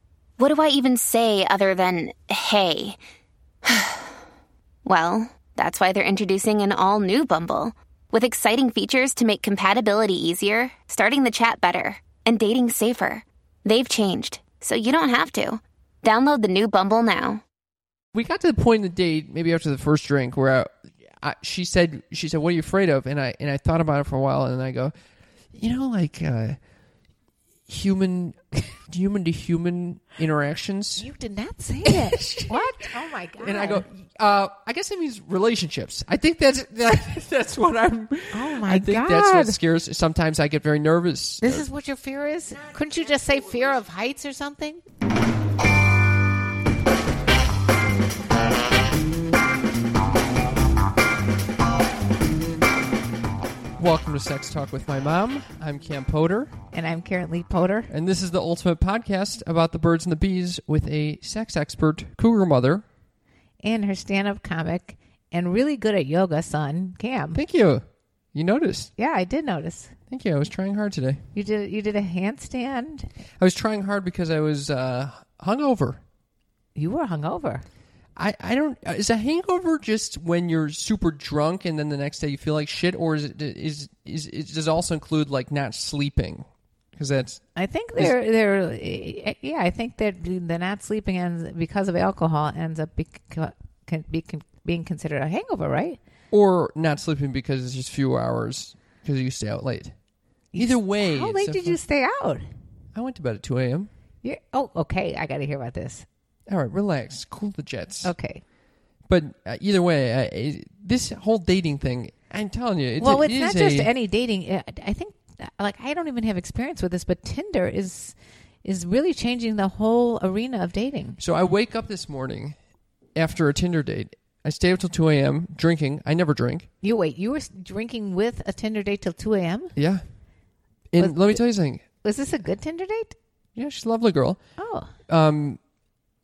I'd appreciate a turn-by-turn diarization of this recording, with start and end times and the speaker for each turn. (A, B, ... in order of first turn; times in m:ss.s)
0:00.4-0:03.0 A
0:03.6-0:04.1 A
0:04.8-0:17.4 A
0:18.1-0:24.9 B
0:25.5-0:26.6 B
0:27.7-0:31.1 B
0:31.0-0:33.8 C
0:31.8-0:32.8 B
0:33.4-0:41.7 B
0:38.3-0:39.6 C
0:41.4-0:44.8 C
0:53.8-0:56.5 B
0:56.7-0:57.9 C
0:57.9-1:02.8 B
1:03.6-1:07.4 C
1:07.4-1:08.9 B
1:09.0-1:09.9 C
1:10.1-1:11.2 B
1:11.4-1:13.1 C
1:13.4-1:16.0 B
1:16.8-1:17.6 C
1:18.2-1:27.4 B
1:27.6-1:36.0 C
1:36.3-1:39.9 B
1:40.5-1:42.5 C
1:40.6-1:41.8 B
1:43.0-1:43.9 B
1:44.2-1:46.1 C
1:46.5-1:48.1 B
1:48.0-1:48.4 C
1:49.1-1:53.9 B
1:53.0-2:01.2 C
2:01.2-2:02.6 B
2:03.2-2:06.7 B
2:06.8-2:09.8 C
2:09.8-2:10.0 B
2:10.9-2:11.8 B
2:11.0-2:11.4 C
2:12.0-2:13.2 C
2:13.6-2:14.4 B
2:14.6-2:14.9 C
2:15.1-2:15.6 B